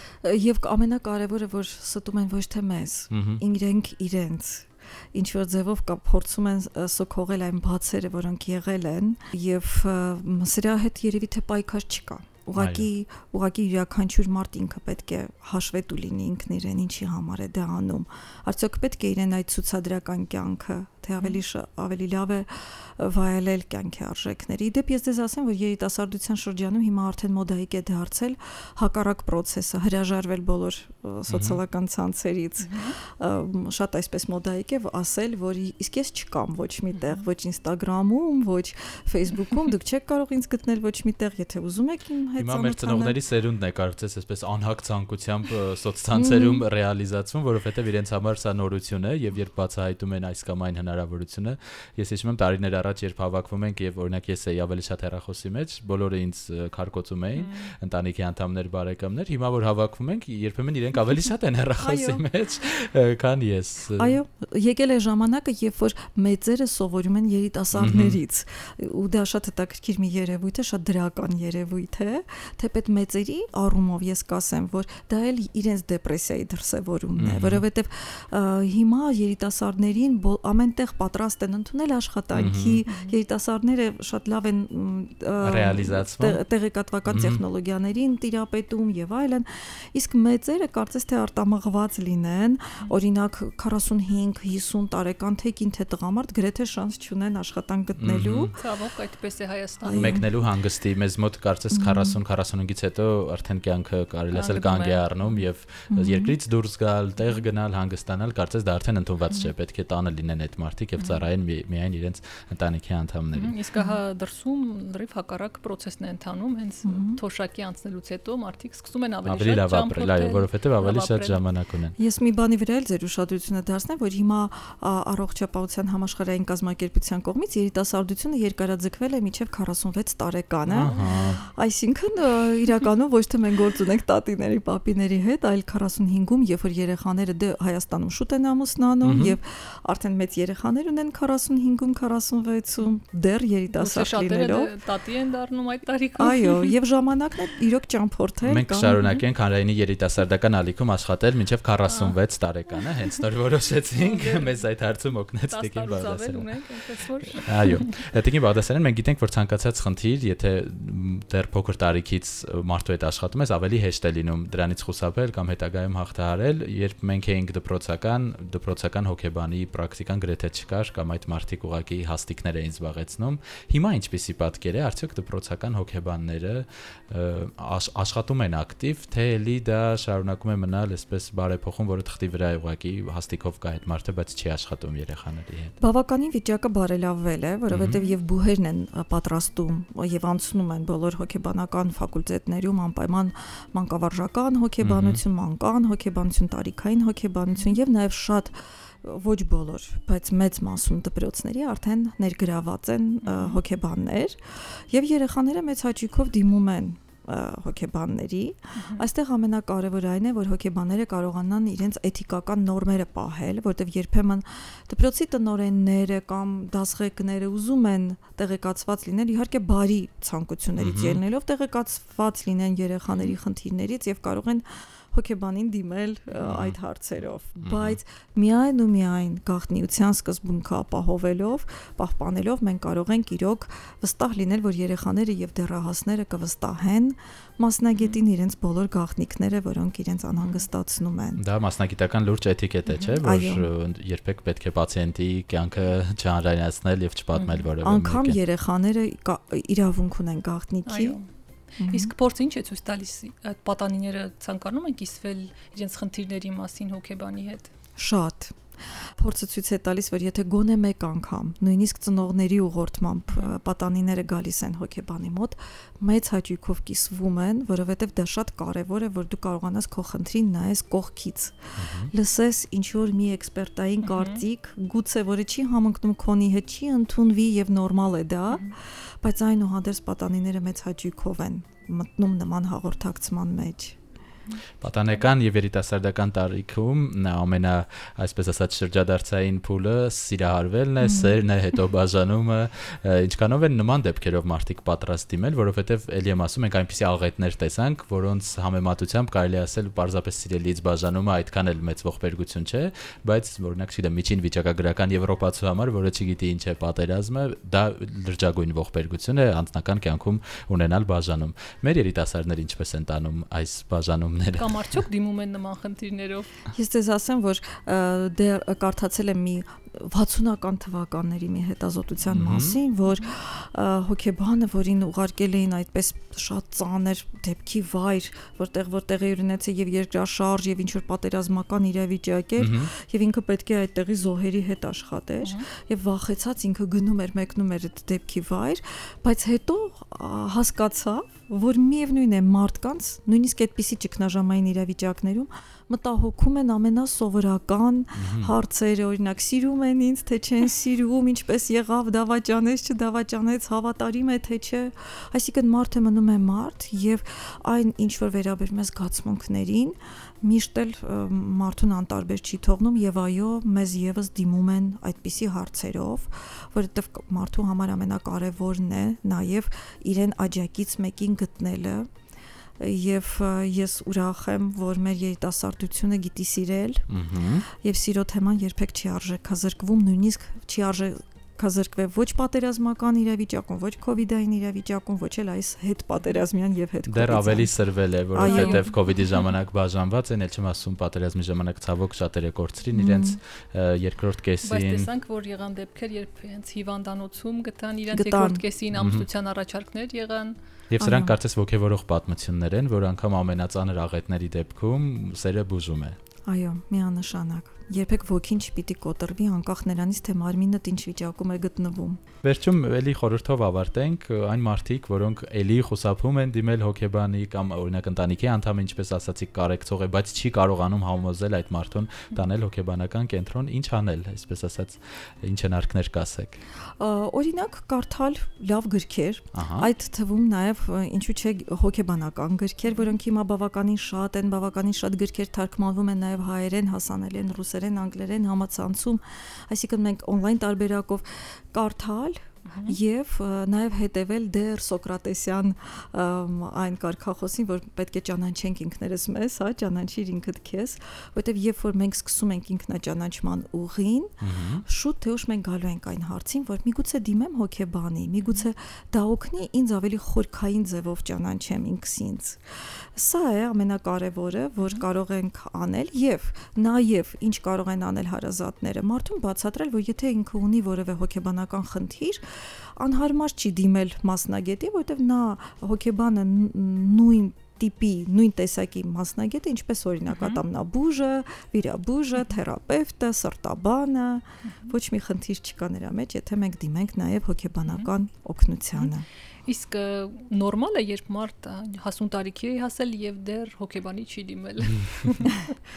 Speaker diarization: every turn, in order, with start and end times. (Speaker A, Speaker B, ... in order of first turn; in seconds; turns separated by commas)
Speaker A: 0.2-43.2, Speaker B: 3.1-3.4, Speaker B: 12.6-12.9, Speaker B: 31.3-31.6, Speaker C: 32.6-33.0, Speaker C: 36.9-37.2, Speaker B: 42.4-64.2, Speaker A: 46.1-46.6, Speaker C: 57.4-57.7, Speaker A: 61.8-62.2, Speaker A: 64.0-98.6, Speaker B: 67.7-68.2, Speaker B: 77.2-77.6, Speaker B: 82.3-82.8, Speaker C: 82.9-83.2, Speaker B: 85.4-86.4, Speaker B: 87.1-87.4, Speaker B: 98.0-98.5, Speaker C: 98.6-100.2, Speaker A: 99.8-100.3, Speaker B: 99.9-113.5, Speaker A: 101.7-102.2, Speaker C: 104.3-105.4, Speaker A: 105.9-106.3, Speaker C: 113.3-121.4, Speaker A: 116.8-117.2, Speaker B: 119.2-122.0, Speaker A: 122.0-144.7, Speaker B: 130.7-131.4, Speaker C: 130.8-131.4, Speaker B: 139.0-139.4, Speaker C: 143.7-146.7, Speaker A: 146.2-149.0, Speaker B: 148.4-185.8, Speaker C: 151.9-152.2, Speaker C: 153.9-154.6, Speaker C: 155.5-158.0, Speaker A: 185.8-241.4, Speaker B: 187.7-188.0, Speaker B: 194.8-195.2, Speaker C: 203.2-203.6, Speaker C: 208.8-209.0, Speaker B: 220.8-221.2, Speaker B: 226.5-226.8, Speaker B: 227.6-228.0, Speaker B: 241.4-248.4, Speaker A: 243.2-243.7, Speaker C: 247.3-247.7, Speaker A: 247.8-251.2, Speaker C: 250.9-251.2, Speaker A: 251.8-252.1, Speaker C: 251.8-257.7, Speaker A: 258.0-258.6, Speaker A: 259.2-284.0, Speaker B: 271.8-272.1, Speaker C: 274.0-274.4, Speaker B: 284.8-315.0, Speaker A: 291.0-291.3, Speaker C: 314.6-316.5, Speaker A: 316.7-372.1, Speaker B: 322.3-322.8, Speaker B: 332.6-332.9, Speaker B: 348.1-348.5, Speaker A: 372.8-377.1, Speaker B: 377.1-377.7, Speaker A: 377.7-387.7, Speaker B: 387.1-395.1, Speaker A: 388.3-388.9, Speaker C: 388.4-388.9, Speaker A: 392.9-393.4, Speaker C: 394.6-400.6, Speaker A: 398.1-398.6, Speaker B: 398.9-399.3, Speaker B: 400.9-406.2, Speaker A: 401.0-401.4, Speaker A: 406.5-412.2, Speaker B: 412.4-426.6, Speaker A: 427.0-462.6, Speaker B: 429.5-429.9, Speaker C: 442.7-443.0, Speaker B: 454.4-454.9, Speaker A: 463.1-489.2, Speaker C: 480.3-480.6, Speaker C: 489.7-495.8, Speaker B: 494.9-495.3